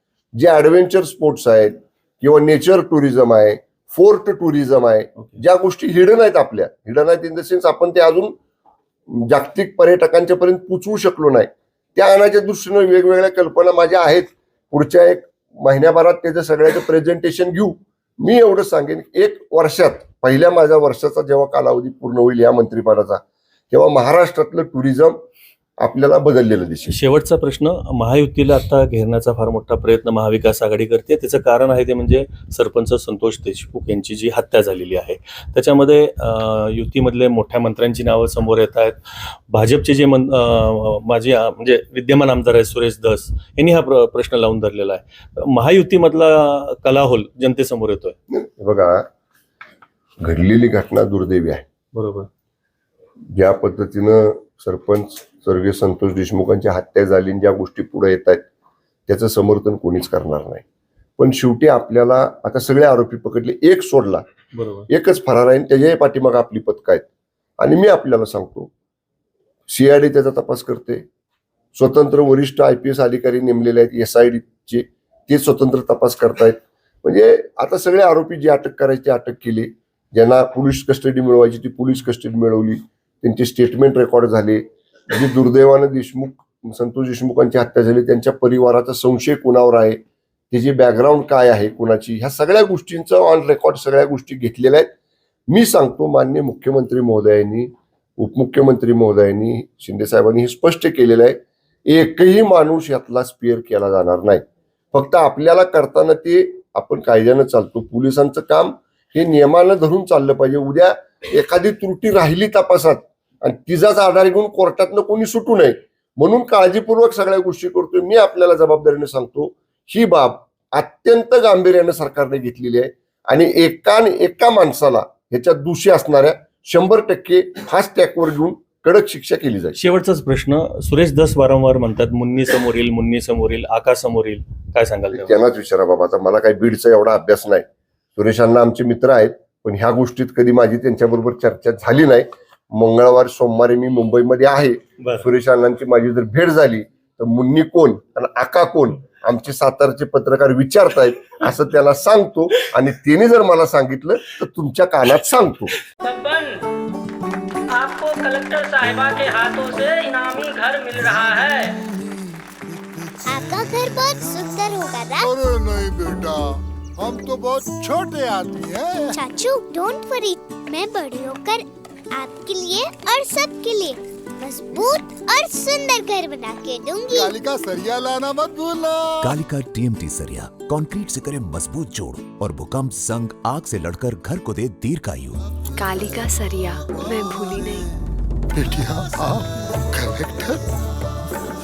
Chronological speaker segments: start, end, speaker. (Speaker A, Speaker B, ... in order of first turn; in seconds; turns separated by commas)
Speaker A: 0.3-8.3, Speaker A: 9.1-25.2, Speaker A: 25.8-27.0, Speaker B: 26.9-39.0, Speaker B: 39.5-48.1, Speaker A: 48.3-49.0, Speaker A: 50.2-51.6, Speaker B: 51.9-52.3, Speaker A: 53.3-58.4, Speaker A: 59.1-60.6, Speaker A: 61.2-64.2, Speaker B: 64.5-64.9, Speaker A: 64.9-67.0, Speaker A: 67.6-68.7, Speaker A: 69.7-71.0, Speaker A: 71.7-90.0, Speaker A: 90.5-94.9, Speaker A: 95.5-129.8, Speaker B: 129.8-135.4, Speaker A: 135.1-155.7, Speaker B: 145.0-145.2, Speaker C: 156.0-156.6, Speaker C: 157.7-161.7, Speaker D: 163.3-165.3, Speaker E: 165.2-169.2, Speaker D: 169.1-177.3, Speaker E: 177.1-179.4, Speaker F: 179.2-185.4, Speaker G: 185.8-187.8, Speaker E: 188.5-190.6